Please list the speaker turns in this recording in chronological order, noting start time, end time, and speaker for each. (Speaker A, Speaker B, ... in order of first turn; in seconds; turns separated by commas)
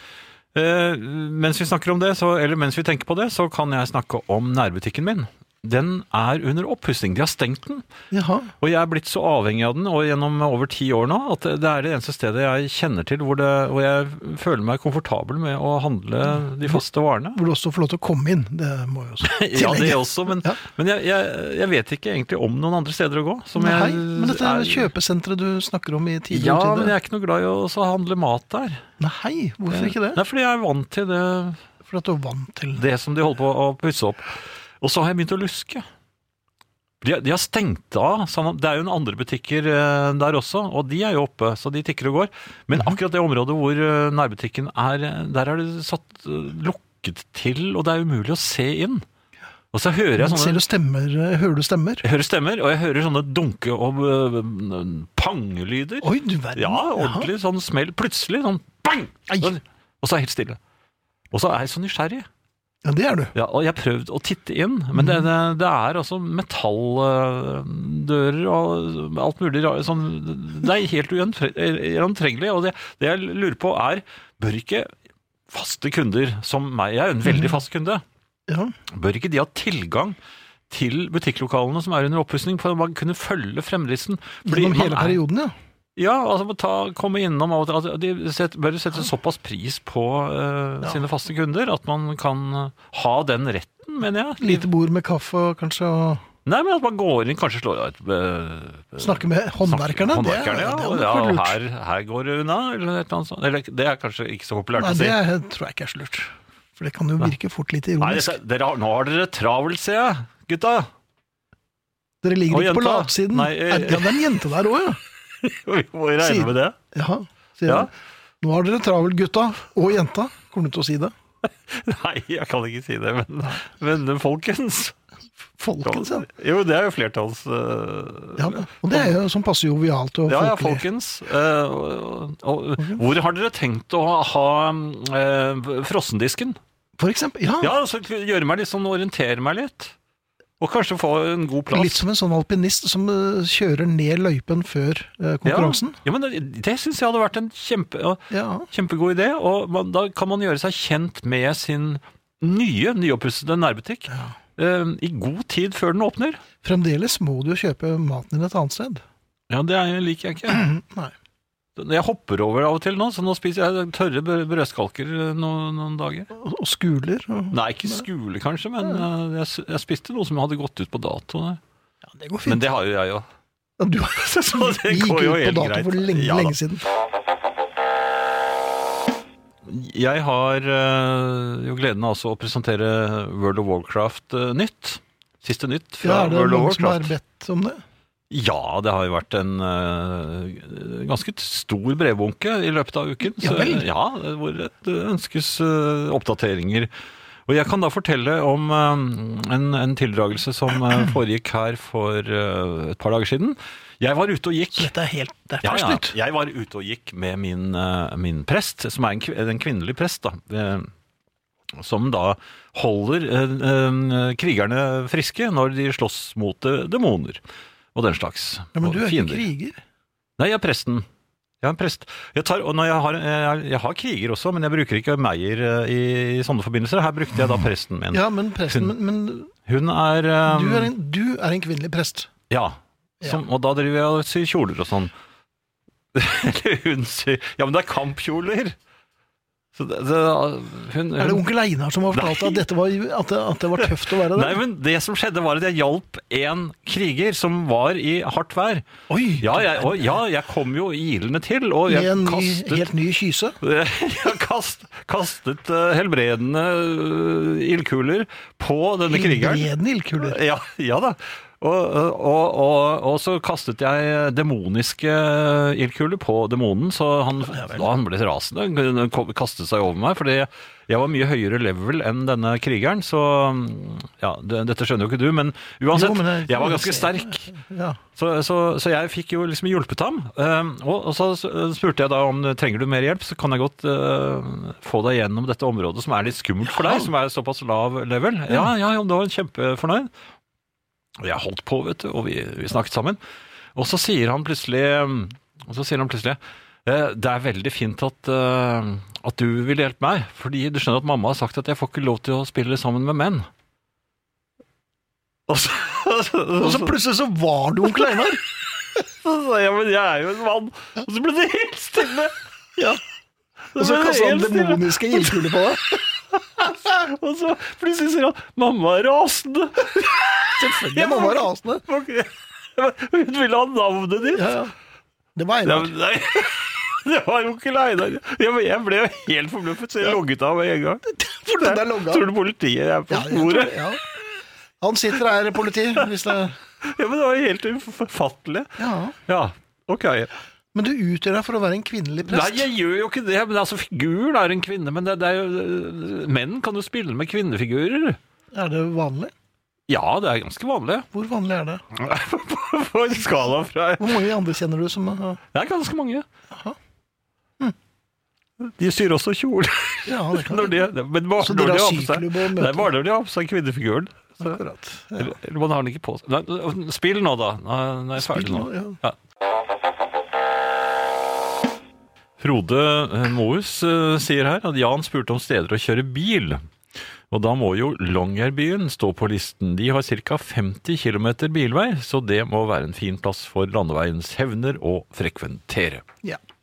Speaker A: 0.5-7.8, Speaker B: 8.1-8.5, Speaker A: 8.6-17.4, Speaker B: 17.3-20.6, Speaker A: 19.2-24.9, Speaker B: 23.6-26.9, Speaker A: 26.3-28.8, Speaker B: 29.0-30.2, Speaker A: 29.7-31.6, Speaker B: 31.8-32.8, Speaker A: 32.8-35.8, Speaker A: 37.0-49.0, Speaker A: 49.7-50.6, Speaker B: 50.2-52.0, Speaker A: 52.0-60.6, Speaker B: 56.0-57.3, Speaker A: 61.3-62.2, Speaker B: 62.8-63.3, Speaker A: 63.3-74.9, Speaker B: 64.9-65.3, Speaker A: 75.5-78.0, Speaker B: 77.3-77.6, Speaker B: 78.5-78.7, Speaker A: 78.9-80.2, Speaker A: 80.7-85.2, Speaker B: 84.4-85.5, Speaker A: 86.0-94.7, Speaker B: 94.4-96.2, Speaker A: 96.5-105.2, Speaker B: 99.0-101.6, Speaker B: 104.8-108.3, Speaker A: 108.0-110.9, Speaker B: 112.2-115.0, Speaker A: 112.5-114.3, Speaker A: 115.4-116.8, Speaker B: 116.2-117.9, Speaker B: 118.4-121.1, Speaker A: 121.4-125.0, Speaker B: 125.6-126.3, Speaker A: 125.8-129.2, Speaker B: 128.4-130.8, Speaker A: 130.2-136.6, Speaker B: 137.0-137.7, Speaker A: 137.6-139.9, Speaker A: 140.6-142.0, Speaker B: 141.7-146.0, Speaker A: 145.4-156.4, Speaker B: 148.3-148.7, Speaker B: 154.1-154.3, Speaker B: 156.6-159.0, Speaker A: 159.5-160.7, Speaker B: 160.6-161.1, Speaker A: 161.8-166.3, Speaker B: 166.3-168.1, Speaker A: 167.5-171.6, Speaker B: 172.1-172.6, Speaker A: 172.4-173.2, Speaker B: 173.8-176.8, Speaker A: 174.2-176.6, Speaker A: 179.6-187.1, Speaker B: 186.0-187.8, Speaker A: 188.3-196.9, Speaker B: 193.3-193.8, Speaker A: 197.5-204.9, Speaker B: 204.7-206.1, Speaker A: 205.6-210.9, Speaker A: 211.8-217.4, Speaker A: 217.9-219.5, Speaker B: 218.7-219.8, Speaker A: 220.4-221.1, Speaker A: 221.6-228.9, Speaker B: 228.1-229.5, Speaker A: 229.7-230.9, Speaker B: 230.4-232.3, Speaker A: 232.5-235.1, Speaker A: 236.1-238.8, Speaker A: 239.7-241.4, Speaker B: 241.2-244.6, Speaker A: 242.1-242.6, Speaker A: 243.7-248.9, Speaker B: 249.1-250.2, Speaker A: 249.4-252.9, Speaker B: 251.9-253.6, Speaker A: 253.6-277.5, Speaker B: 259.1-260.4, Speaker B: 267.5-267.9, Speaker B: 275.9-278.0, Speaker A: 278.1-290.1, Speaker B: 286.7-287.1, Speaker A: 291.2-293.2, Speaker A: 293.7-303.5, Speaker A: 305.5-306.9, Speaker B: 306.6-308.4, Speaker A: 308.9-312.3, Speaker A: 313.7-315.7, Speaker B: 313.7-316.0, Speaker A: 316.3-324.5, Speaker B: 320.6-321.8, Speaker B: 324.3-324.7, Speaker B: 325.4-325.9, Speaker A: 325.6-331.0, Speaker B: 331.1-332.3, Speaker A: 331.6-333.9, Speaker B: 333.1-334.1, Speaker B: 334.8-336.6, Speaker A: 336.8-340.3, Speaker B: 338.8-339.2, Speaker B: 340.7-342.7, Speaker A: 342.2-348.2, Speaker B: 348.5-349.3, Speaker A: 349.9-351.1, Speaker B: 351.1-351.8, Speaker A: 351.9-354.2, Speaker B: 354.0-355.4, Speaker A: 355.5-356.2, Speaker B: 356.5-356.8, Speaker A: 358.6-364.6, Speaker B: 360.1-362.9, Speaker B: 364.4-365.4, Speaker A: 365.1-369.2, Speaker B: 368.2-369.0, Speaker A: 372.4-376.6, Speaker A: 377.3-386.0